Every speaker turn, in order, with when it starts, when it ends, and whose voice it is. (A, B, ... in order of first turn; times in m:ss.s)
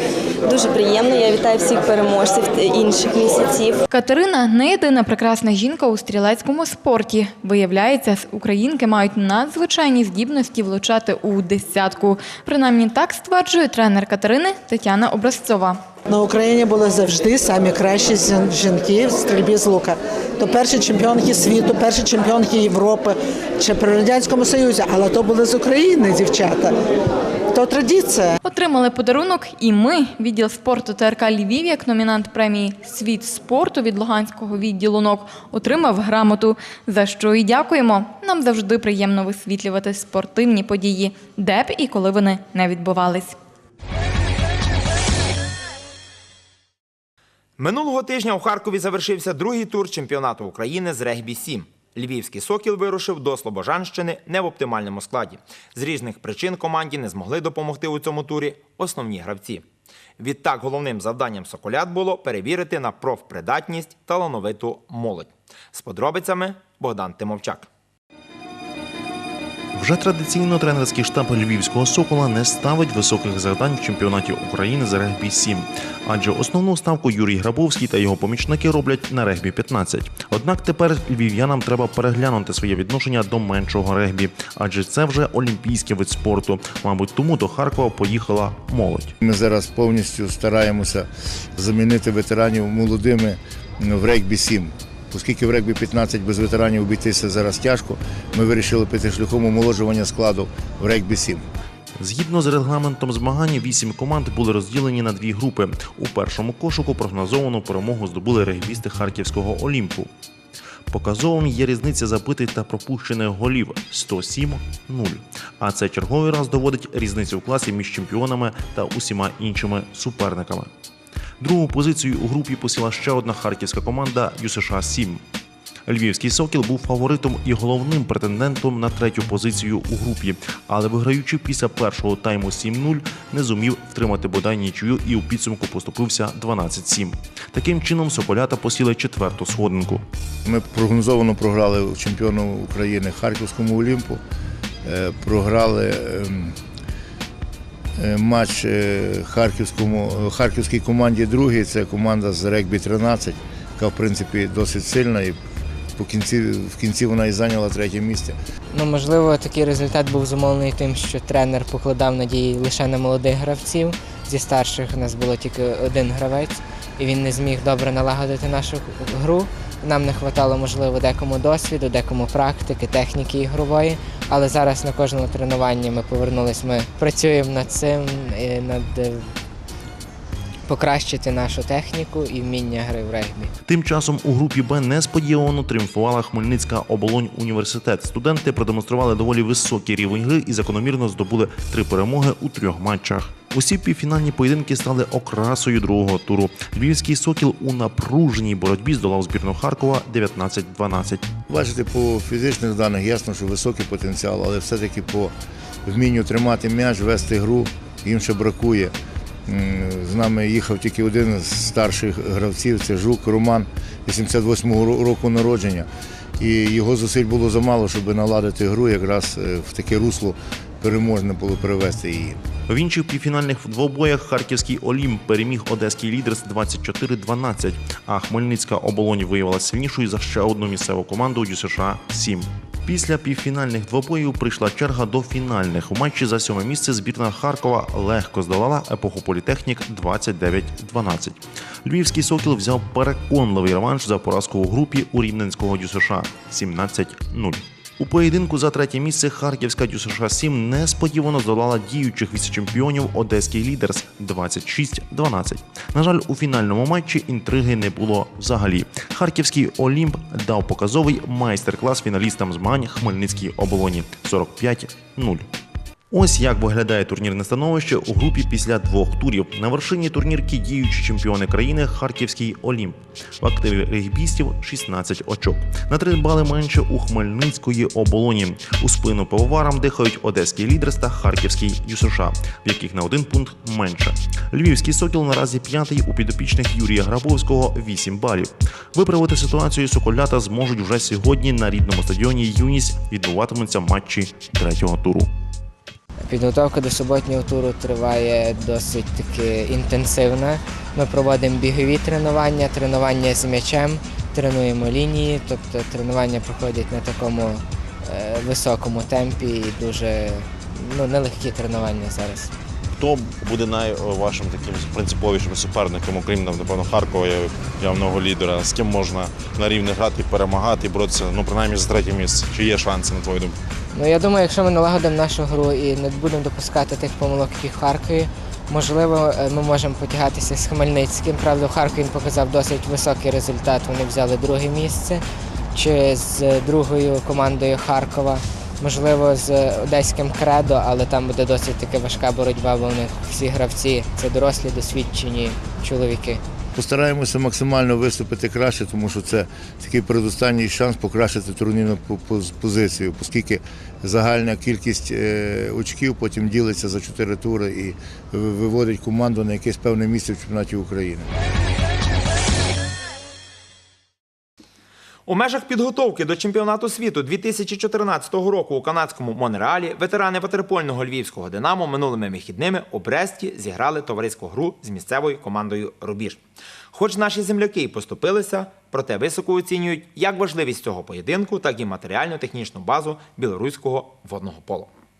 0:00.4-0:03.8 A
0:03.9-0:15.8 B
0:16.1-0:26.7 C
0:27.5-0:28.4 C
0:28.4-0:43.4 B
0:47.6-0:59.6 D
1:00.2-1:07.7 D
1:09.7-1:29.1 E
1:29.2-1:41.4 F
1:42.0-1:50.1 E
1:50.9-2:00.7 E
2:01.4-2:05.2 E
2:05.8-2:20.0 E
2:20.4-2:24.2 F
2:24.8-2:26.6 F
2:28.0-2:35.4 F
2:36.0-2:38.4 F
2:38.7-2:59.3 G
3:00.6-3:03.5 G
3:03.6-3:21.3 E
3:21.5-3:28.9 F
3:29.5-3:42.4 F
3:42.7-4:25.5 E
4:26.1-4:55.3 E
4:56.2-5:12.5 G
5:12.9-5:23.6 H
5:23.9-5:35.2 G
5:35.7-5:46.4 G
5:46.7-6:01.3 F
6:05.3-6:16.4 D
6:16.9-6:24.9 D